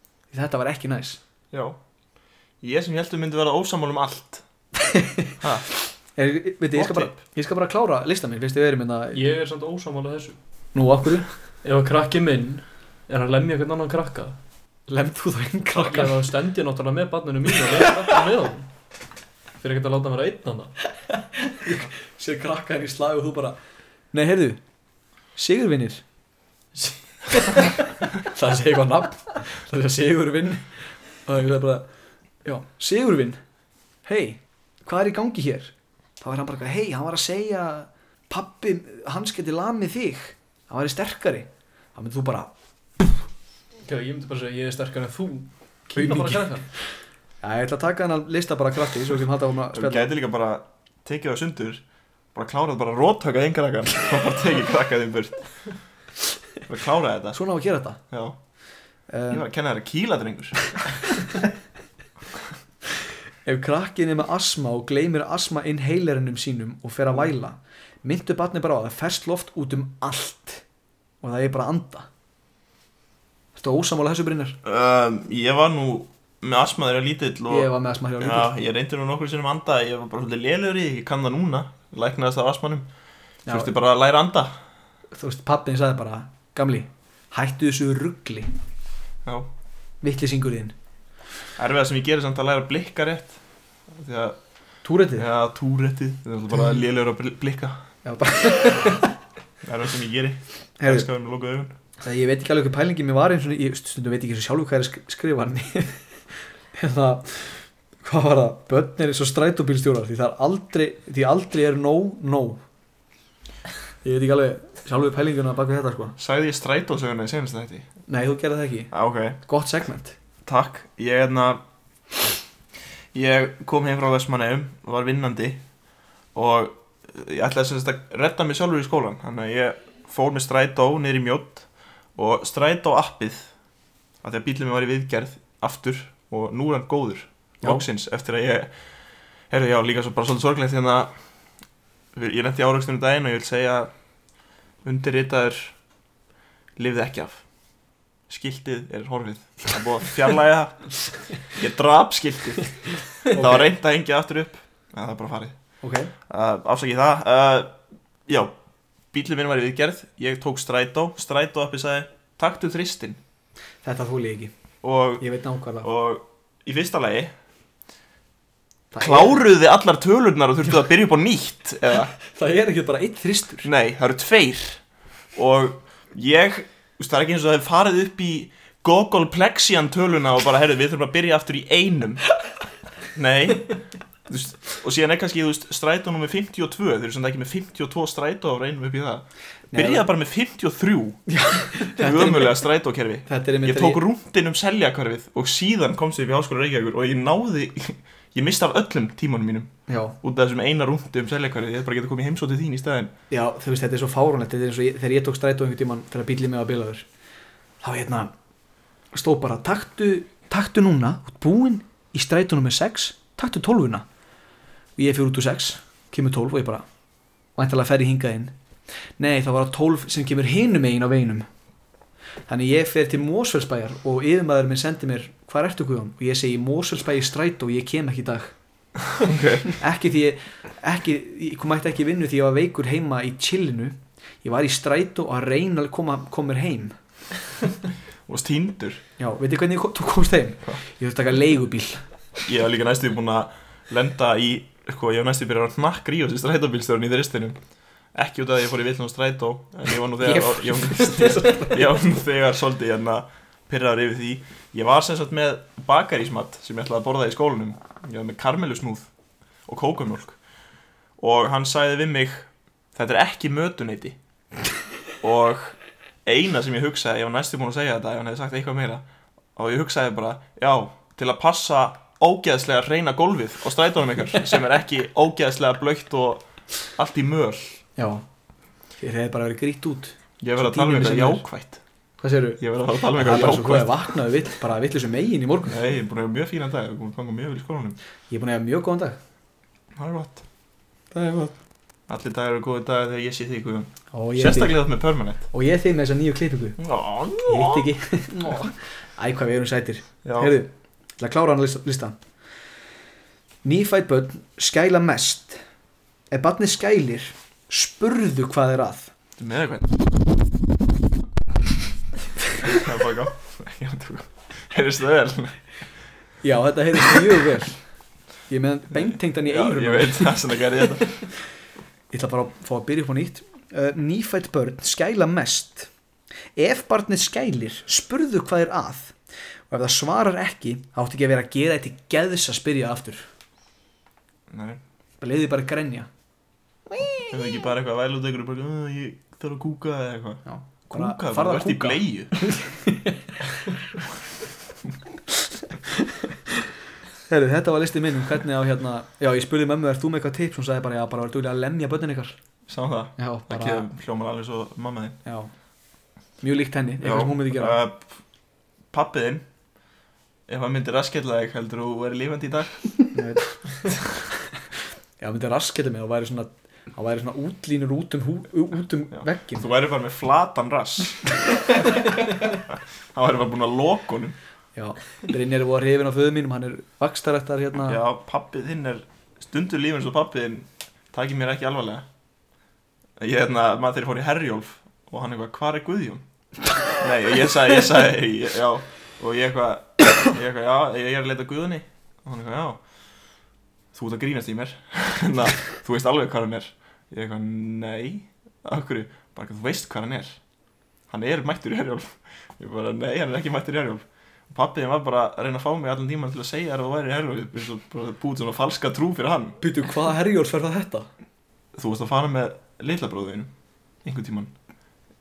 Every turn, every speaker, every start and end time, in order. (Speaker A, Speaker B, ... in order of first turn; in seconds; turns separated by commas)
Speaker A: 0.3-1.2, Speaker B: 1.5-1.8, Speaker B: 2.6-4.4, Speaker A: 4.9-5.3, Speaker B: 5.4-5.7, Speaker A: 6.1-9.2, Speaker B: 6.8-7.2, Speaker C: 9.1-10.4, Speaker A: 10.7-11.3, Speaker C: 11.6-14.4, Speaker A: 14.9-16.3, Speaker C: 15.8-18.7, Speaker C: 19.6-20.8, Speaker A: 21.4-23.6, Speaker A: 24.1-24.6, Speaker A: 25.4-26.0, Speaker C: 26.8-27.6, Speaker A: 27.5-31.9, Speaker A: 32.4-33.4, Speaker A: 34.0-42.5, Speaker C: 43.8-46.7, Speaker A: 46.0-46.4, Speaker A: 47.4-50.1, Speaker B: 49.7-51.8, Speaker B: 52.3-55.6, Speaker B: 56.6-57.4, Speaker A: 57.3-58.0, Speaker B: 58.1-58.4, Speaker A: 59.1-59.4, Speaker B: 59.3-60.9, Speaker A: 63.4-70.6, Speaker A: 71.2-72.1, Speaker A: 73.5-74.6, Speaker B: 74.6-82.9, Speaker A: 77.5-78.5, Speaker A: 83.5-83.7, Speaker B: 83.5-84.6, Speaker A: 85.1-88.5, Speaker A: 90.0-90.7, Speaker B: 91.5-93.4, Speaker B: 93.9-94.4, Speaker A: 94.8-95.2, Speaker B: 95.2-97.8, Speaker A: 98.0-99.1, Speaker B: 99.6-101.7, Speaker A: 100.8-101.1, Speaker A: 102.0-106.0, Speaker A: 106.7-112.6, Speaker A: 114.0-116.1, Speaker B: 116.2-117.9, Speaker A: 118.1-120.1, Speaker B: 118.9-119.4, Speaker B: 120.4-121.6, Speaker B: 123.1-125.6, Speaker B: 126.3-133.5, Speaker B: 134.2-138.7, Speaker B: 139.5-141.1, Speaker B: 142.1-143.9, Speaker B: 144.8-145.7, Speaker B: 146.8-147.4, Speaker B: 148.3-155.6, Speaker A: 153.3-153.7, Speaker A: 155.8-156.1, Speaker B: 156.3-157.8, Speaker B: 158.3-158.5, Speaker B: 159.1-163.2, Speaker A: 163.8-164.5, Speaker B: 164.8-165.2, Speaker A: 165.2-165.9, Speaker B: 165.8-167.3, Speaker A: 168.9-169.4, Speaker B: 169.0-172.1, Speaker A: 172.3-173.7, Speaker B: 173.6-174.8, Speaker B: 175.3-182.3, Speaker B: 183.1-203.1, Speaker A: 189.7-190.0, Speaker A: 191.3-192.5, Speaker A: 193.3-194.0, Speaker A: 199.9-200.2, Speaker A: 203.3-207.1, Speaker A: 207.8-208.3, Speaker A: 209.1-214.1, Speaker A: 215.0-216.8, Speaker A: 217.6-218.5, Speaker A: 219.2-221.5, Speaker A: 222.5-228.5, Speaker B: 229.2-229.7, Speaker A: 229.7-236.9, Speaker B: 238.3-239.0, Speaker A: 239.2-242.1, Speaker B: 242.4-247.6, Speaker B: 248.1-259.1, Speaker A: 250.2-251.9, Speaker B: 259.6-260.4, Speaker B: 261.2-264.1, Speaker B: 265.2-269.0, Speaker B: 269.6-277.8, Speaker A: 278.0-278.2, Speaker A: 279.0-281.4, Speaker B: 280.4-281.8, Speaker A: 282.2-282.6, Speaker B: 282.6-284.1, Speaker A: 283.1-285.8, Speaker B: 285.7-288.0, Speaker A: 288.3-289.2, Speaker B: 289.9-290.4, Speaker A: 291.1-291.5, Speaker B: 292.1-295.4, Speaker A: 294.1-294.8, Speaker A: 295.5-296.8, Speaker B: 296.8-297.9, Speaker A: 297.4-302.2, Speaker B: 300.2-300.5, Speaker A: 303.6-305.6, Speaker A: 306.3-309.1, Speaker B: 309.4-310.0, Speaker B: 312.6-315.6, Speaker A: 316.4-317.8, Speaker A: 318.5-320.6, Speaker B: 319.0-321.2, Speaker A: 322.1-325.9, Speaker A: 326.6-329.1, Speaker A: 329.7-333.3, Speaker B: 334.5-334.8, Speaker A: 335.2-336.1, Speaker A: 336.9-337.3, Speaker B: 337.3-342.4, Speaker A: 340.4-343.2, Speaker A: 347.3-352.4, Speaker B: 352.7-355.2, Speaker A: 353.2-353.9, Speaker A: 355.2-355.5, Speaker A: 356.4-357.8, Speaker B: 357.0-358.2, Speaker B: 358.9-359.4, Speaker B: 360.5-363.0, Speaker A: 363.1-363.9, Speaker A: 365.2-369.6, Speaker B: 369.1-371.3, Speaker B: 373.1-374.4, Speaker A: 374.8-378.0, Speaker B: 377.8-382.0, Speaker B: 383.2-386.2, Speaker B: 386.9-392.8, Speaker B: 393.9-400.4, Speaker B: 401.1-409.6, Speaker A: 409.6-411.1, Speaker B: 411.7-413.5, Speaker B: 414.0-414.5